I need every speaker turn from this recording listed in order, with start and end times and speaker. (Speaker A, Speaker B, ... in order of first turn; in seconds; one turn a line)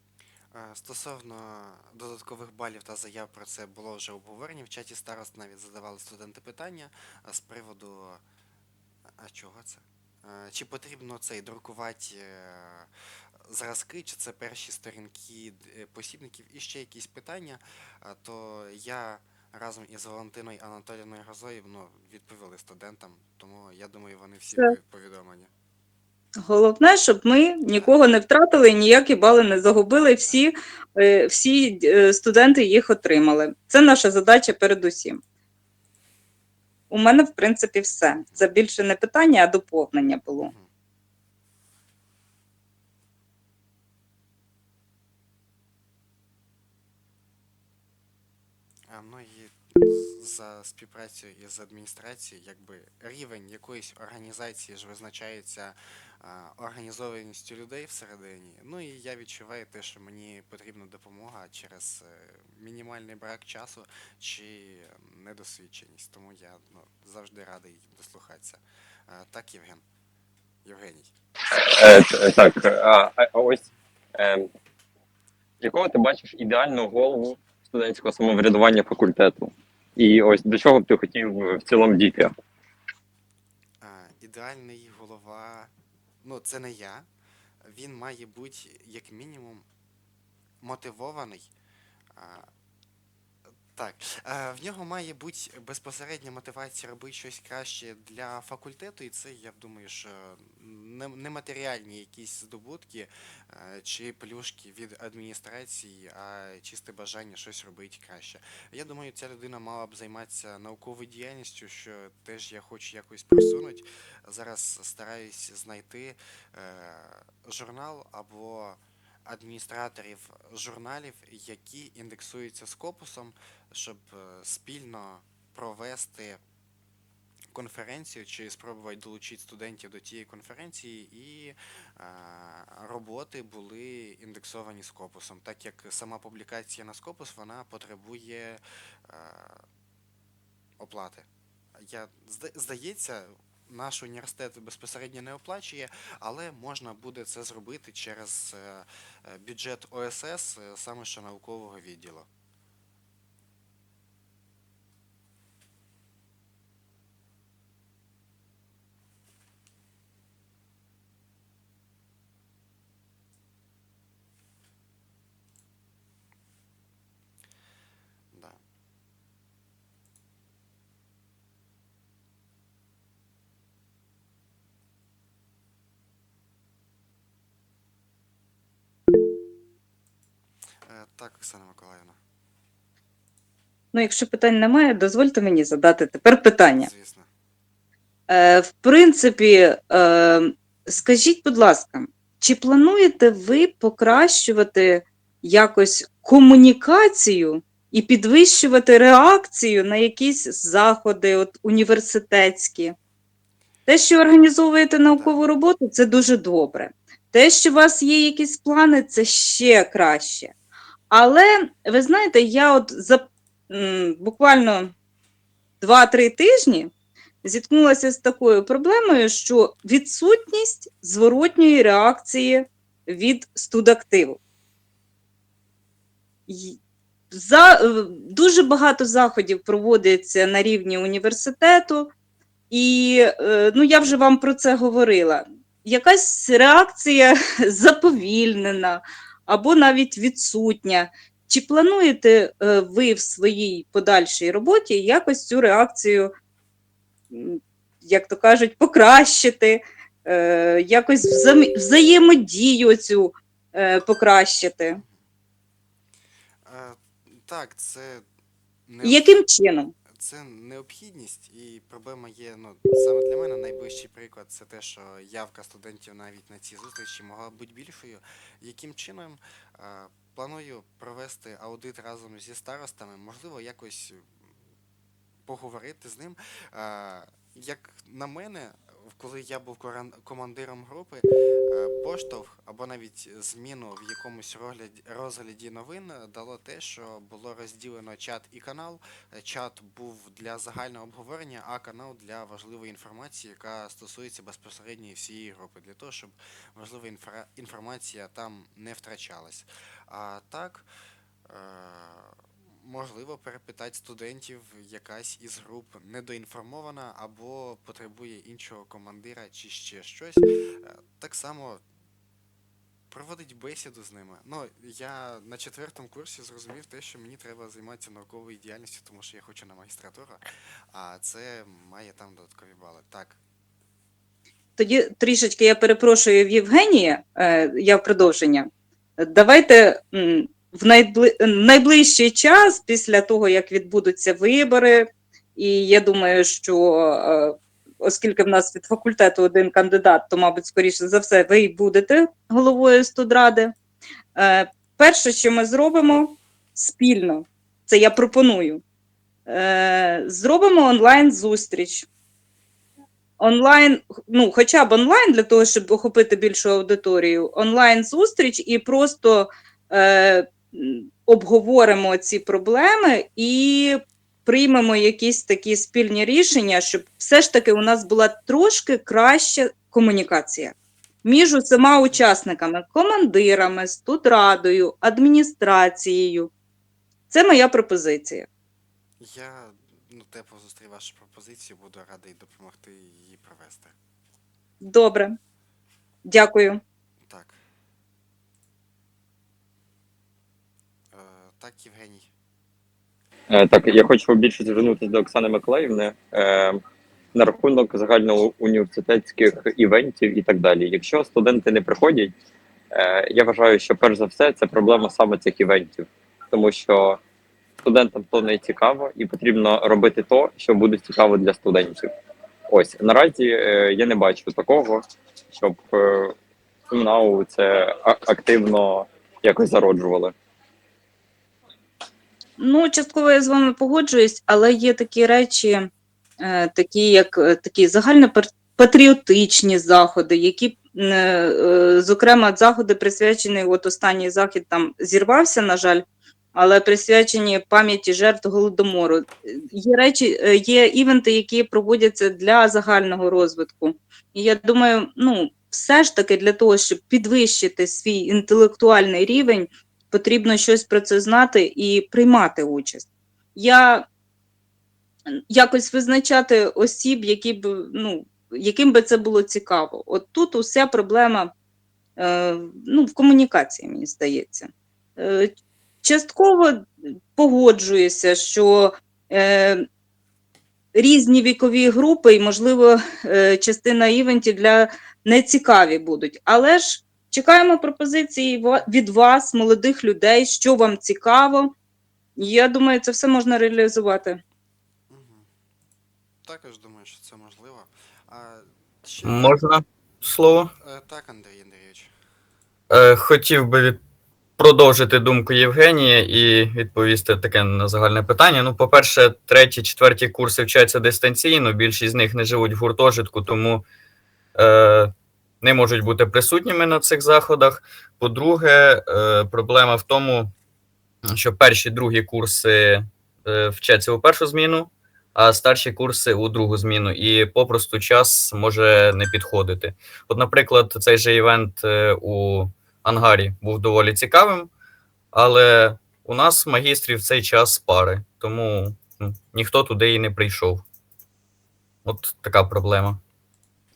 Speaker A: 0.5-8.2
Speaker A: 9.2-12.9
Speaker A: 13.4-25.5
Speaker B: 26.4-35.2
Speaker A: 30.1-30.4
Speaker B: 36.9-40.5
Speaker A: 38.1-38.5
Speaker A: 40.4-40.7
Speaker A: 48.9-69.8
Speaker A: 70.6-71.1
Speaker C: 71.5-73.6
Speaker C: 74.2-74.5
Speaker C: 75.6-82.3
Speaker A: 83.8-85.7
Speaker A: 86.2-87.1
Speaker A: 87.6-89.6
Speaker A: 90.6-91.5
Speaker A: 92.1-92.5
Speaker A: 93.7-126.4
Speaker A: 127.5-139.7
Speaker A: 140.8-141.3
Speaker A: 141.8-152.3
Speaker A: 168.3-168.6
Speaker A: 180.8-182.2
Speaker B: 183.9-186.9
Speaker A: 186.7-187.3
Speaker B: 188.3-202.9
Speaker B: 203.9-210.5
Speaker A: 205.0-205.4
Speaker B: 211.1-214.9
Speaker B: 215.8-216.9
Speaker B: 217.4-224.4
Speaker B: 226.5-226.8
Speaker B: 227.3-232.1
Speaker B: 232.7-246.3
Speaker B: 247.3-255.0
Speaker A: 254.9-255.2
Speaker A: 256.6-258.2
Speaker A: 258.9-259.2
Speaker B: 259.0-259.9
Speaker A: 260.1-274.3
Speaker A: 275.4-300.9
Speaker A: 301.5-311.8
Speaker A: 313.1-323.4
Speaker B: 324.8-343.7
Speaker B: 344.3-348.8
Speaker B: 349.5-352.1
Speaker B: 353.4-376.5
Speaker B: 377.3-378.5
Speaker A: 379.2-383.9
Speaker B: 384.8-385.4
Speaker B: 386.2-386.8
Speaker A: 387.2-387.6
Speaker A: 391.1-392.3
Speaker C: 393.5-396.8
Speaker C: 397.3-402.3
Speaker C: 402.9-407.2
Speaker C: 407.8-412.1
Speaker C: 412.7-416.3
Speaker C: 416.9-420.3
Speaker B: 422.6-425.9
Speaker B: 426.4-436.0
Speaker B: 436.5-454.1
Speaker B: 455.5-461.5
Speaker B: 462.2-465.5
Speaker B: 466.0-469.8
Speaker B: 470.9-481.7
Speaker B: 482.4-484.4
Speaker A: 485.1-485.5
Speaker A: 486.4-489.6
Speaker D: 489.2-490.7
Speaker A: 490.8-492.1
Speaker D: 492.9-494.0
Speaker D: 494.6-503.8
Speaker D: 504.6-510.5
Speaker D: 511.3-524.7
Speaker D: 525.3-530.8
Speaker D: 532.0-533.2